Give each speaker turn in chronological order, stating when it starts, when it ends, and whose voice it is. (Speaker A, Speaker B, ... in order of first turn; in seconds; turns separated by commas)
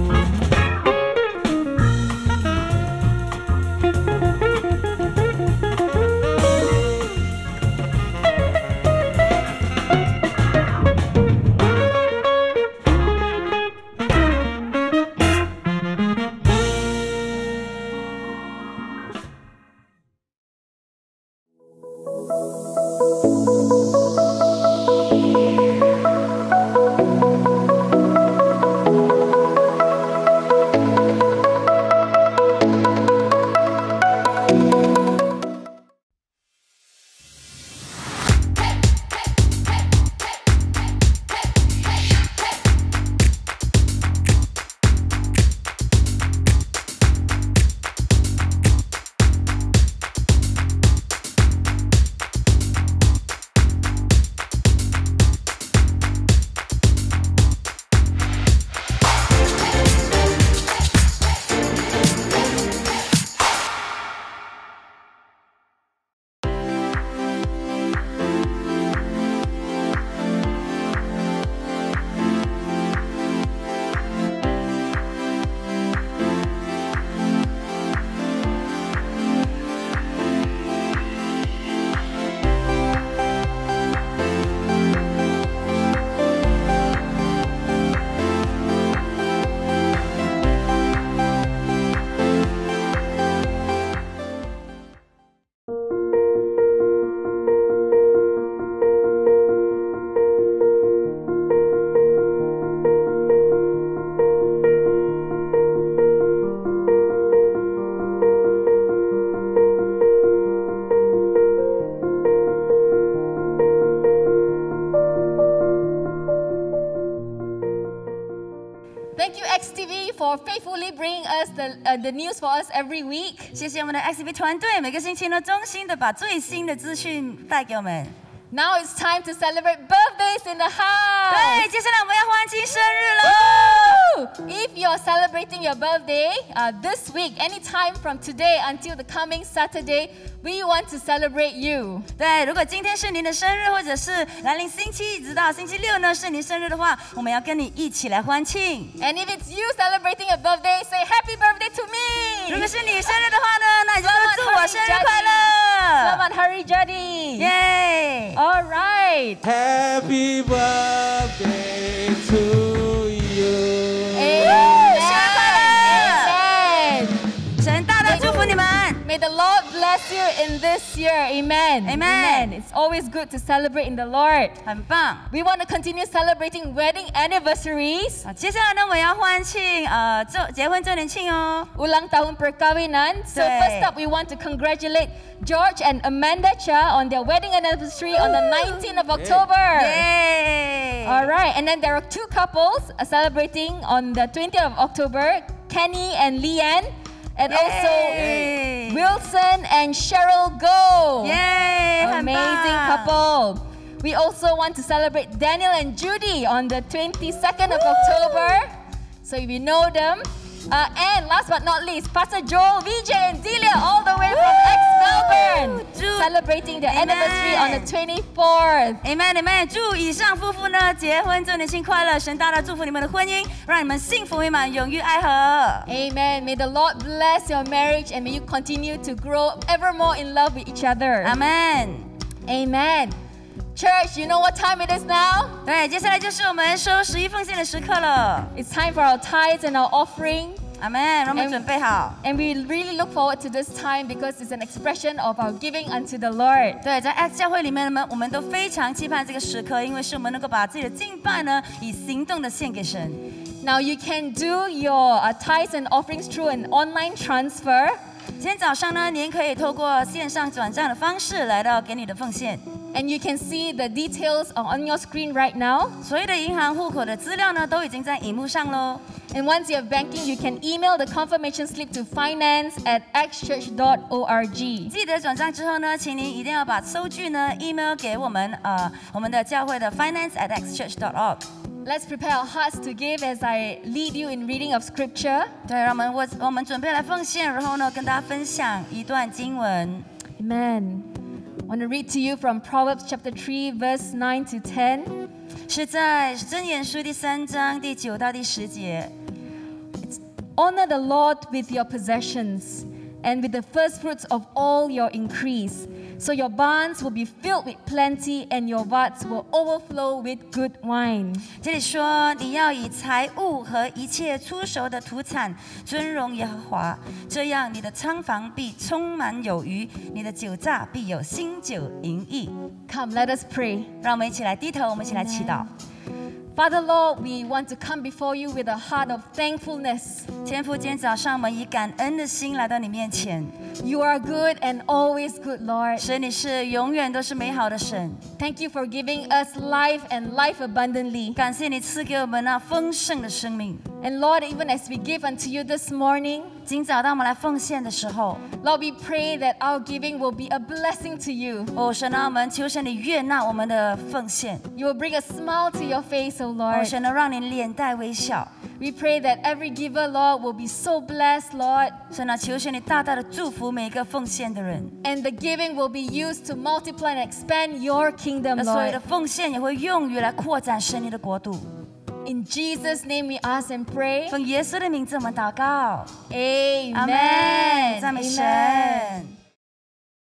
Speaker A: 119.2-123.5, Speaker B: 123.5-128.2, Speaker A: 128.5-131.7, Speaker B: 131.3-134.0, Speaker A: 133.3-142.1, Speaker B: 142.2-148.9, Speaker A: 149.0-152.7, Speaker B: 152.5-156.2, Speaker A: 154.0-155.5, Speaker A: 156.0-157.5, Speaker B: 157.4-158.4, Speaker A: 158.4-159.4, Speaker C: 159.4-164.5, Speaker A: 164.1-167.2, Speaker B: 164.4-166.4, Speaker B: 167.6-169.0, Speaker A: 168.0-174.6, Speaker B: 171.8-172.5, Speaker B: 174.7-175.3, Speaker A: 175.3-178.2, Speaker B: 178.2-181.7, Speaker A: 181.8-190.1, Speaker B: 183.3-183.9, Speaker B: 188.2-188.8, Speaker C: 189.2-189.4, Speaker B: 189.7-191.3, Speaker A: 191.1-201.4, Speaker B: 197.5-199.1, Speaker B: 201.2-203.1, Speaker A: 202.0-219.0, Speaker B: 207.7-208.6, Speaker B: 214.3-216.3, Speaker B: 216.9-217.9, Speaker B: 219.0-225.9, Speaker A: 225.9-231.4, Speaker B: 231.2-232.1, Speaker A: 232.5-233.2, Speaker A: 233.8-235.6, Speaker B: 235.7-238.5, Speaker A: 238.5-240.6, Speaker B: 240.8-242.2, Speaker A: 241.3-241.7, Speaker A: 242.2-246.8, Speaker B: 246.8-253.2, Speaker A: 253.6-258.0, Speaker B: 258.4-262.6, Speaker A: 262.9-266.0, Speaker B: 266.0-269.0, Speaker A: 269.3-274.9, Speaker B: 274.9-281.4, Speaker A: 281.9-285.5, Speaker B: 285.7-290.1, Speaker A: 290.4-291.1, Speaker A: 291.7-295.2, Speaker B: 295.7-299.1, Speaker A: 300.0-311.5, Speaker B: 311.6-322.5, Speaker A: 322.9-323.9, Speaker B: 324.0-325.7, Speaker A: 325.3-325.6, Speaker A: 326.6-330.3, Speaker B: 330.4-333.6, Speaker A: 333.8-336.1, Speaker B: 336.0-338.2, Speaker A: 338.4-341.4, Speaker B: 341.4-343.8, Speaker A: 344.0-346.6, Speaker B: 346.7-348.4, Speaker A: 348.6-351.7, Speaker B: 351.8-354.7, Speaker A: 354.8-356.9, Speaker B: 356.7-358.5, Speaker A: 358.8-362.0, Speaker B: 362.1-364.9, Speaker A: 365.0-369.0, Speaker B: 368.6-371.7, Speaker A: 372.2-374.4, Speaker B: 374.3-376.1, Speaker A: 376.3-379.2, Speaker B: 376.9-379.3